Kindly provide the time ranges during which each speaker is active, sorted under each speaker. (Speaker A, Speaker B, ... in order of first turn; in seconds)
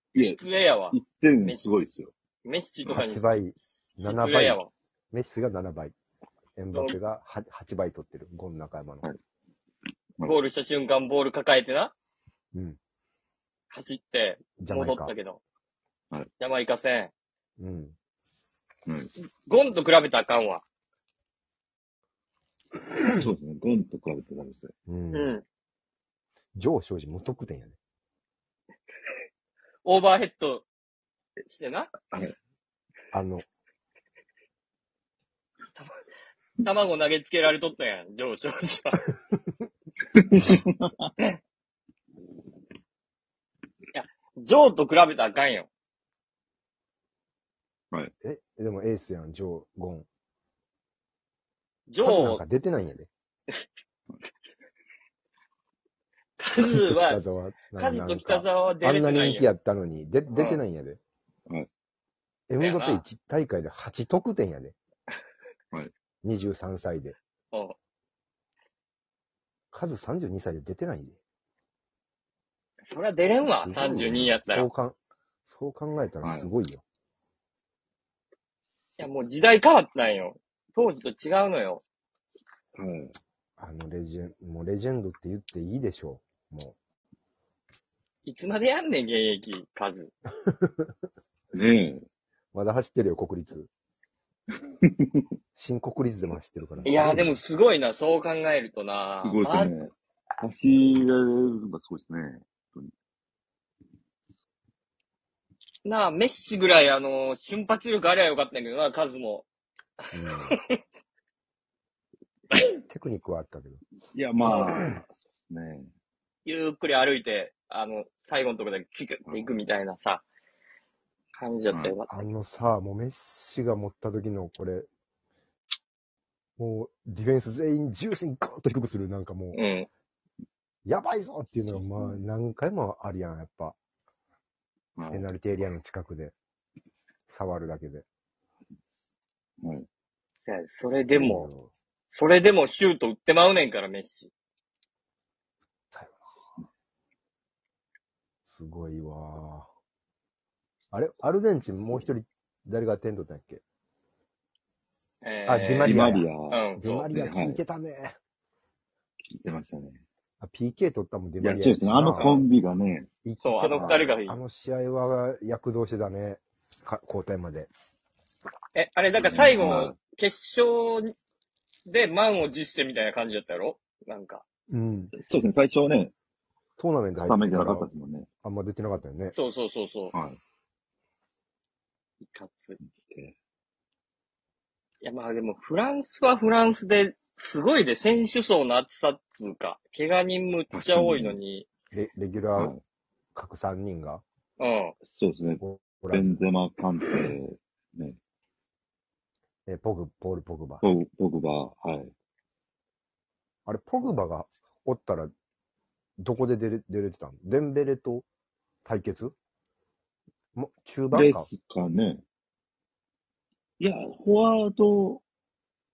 Speaker A: 0.1-2.1, 23.2-24.7, 40.1-41.1, 76.2-76.5, 82.7-83.1, 91.5-92.0, 94.8-95.2, 99.2-102.9, 114.1-115.9, 119.2-119.6, 131.7-132.2, 135.0-135.3, 155.8-157.6, 159.2-160.0, 161.4-163.1, 169.1-169.9, 175.2-176.1, 177.1-178.3, 180.1-180.4, 182.8-183.3, 190.7-191.4, 192.6-192.8, 195.1-198.2, 200.8-202.1, 211.1-212.2, 213.8-215.2
Speaker B: 0.2-1.6, 2.4-4.7, 10.2-11.9, 13.7-15.4, 16.4-17.1, 19.4-20.6, 25.1-25.4, 29.8-30.7, 31.4-32.2, 35.8-36.0, 36.6-39.0, 43.9-45.7, 51.9-52.4, 56.4-57.2, 57.8-59.5, 60.3-60.6, 62.6-63.0, 72.9-74.7, 79.0-81.8, 88.2-90.1, 96.8-99.7, 105.8-109.5, 110.0-110.8, 116.5-120.2, 121.3-122.2, 129.5-129.9, 140.5-141.5, 142.1-144.3, 155.2-157.1, 162.1-162.4, 163.4-164.4, 168.7-171.1, 171.8-174.4, 179.3-180.1, 182.2-182.8, 185.0-191.7, 194.6-194.9
Speaker C: 2.9-6.0, 6.5-9.0, 14.6-15.1, 17.6-17.9, 24.9-25.3, 26.5-27.8, 33.1-33.4, 48.2-50.1, 52.0-53.1, 56.6-61.0, 62.5-64.7, 66.2-67.2, 69.7-71.2, 73.4-76.8, 83.6-86.8, 90.4-90.9, 92.5-93.7, 95.5-97.3, 110.1-110.6, 112.5-113.8, 122.1-124.9, 126.6-129.6, 130.8-133.8, 135.1-136.3, 137.3-138.1, 141.1-141.7, 145.9-146.2, 148.4-149.7, 150.9-153.6, 155.5-158.2, 160.4-162.5, 163.2-167.7, 174.7-175.1, 176.8-177.9, 178.4-179.3, 191.9-192.8, 193.3-194.2, 195.6-196.4, 199.7-200.8, 203.7-205.3, 206.2-208.2, 208.8-209.3, 210.5-211.5